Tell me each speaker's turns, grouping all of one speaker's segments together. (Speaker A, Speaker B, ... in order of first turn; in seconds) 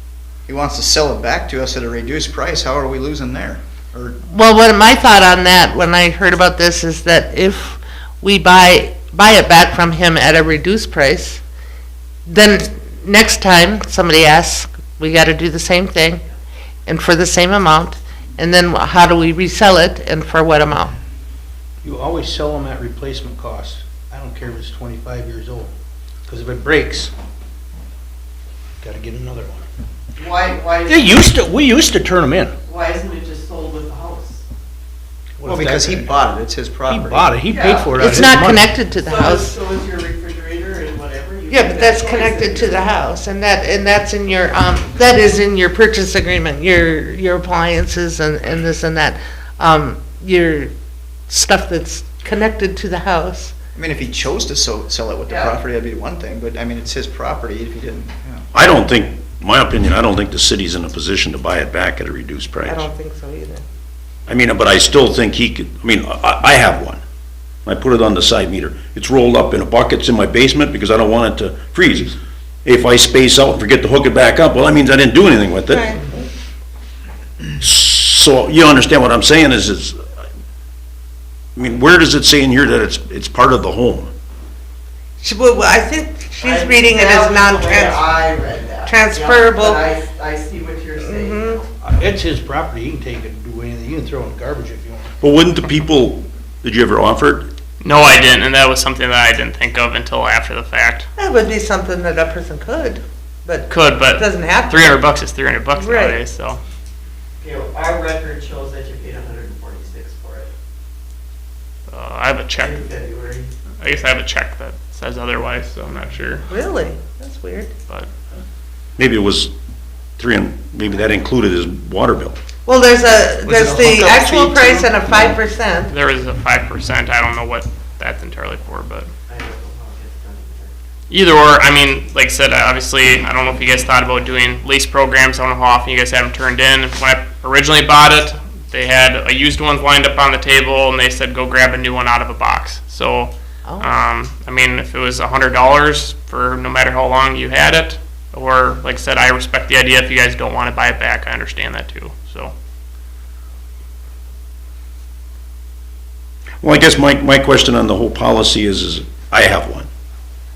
Speaker A: 0.5-4.2, 35.5-37.4, 53.8-58.5, 123.5-124.9
Speaker B: 4.3-11.4, 12.2-16.2, 16.9-20.9, 38.0-39.5, 41.5-50.7, 51.3-53.5, 62.7-63.6, 75.7-76.0, 85.2-88.0, 88.9-89.8, 91.0-91.6, 101.2-104.9, 105.7-106.2, 116.5-117.7, 122.7-125.9, 143.7-143.9
Speaker C: 21.8-25.7, 26.2-27.1, 28.8-29.7, 30.9-32.5, 35.4-36.2, 36.9-38.7, 91.8-95.1
Speaker D: 30.1-31.4, 32.6-34.4, 37.4-38.1, 38.9-42.9, 55.3-55.6, 86.4-91.8, 107.4-110.5, 112.5-113.5, 129.3-130.7
Speaker E: 58.5-62.9, 64.3-67.0, 67.7-75.9, 77.6-80.0, 81.6-84.1, 95.2-97.5, 119.0-119.5, 120.2-122.4, 156.6-159.9
Speaker F: 97.8-101.1, 103.7-106.6, 111.9-112.9, 113.8-116.5, 125.9-129.1, 131.1-152.5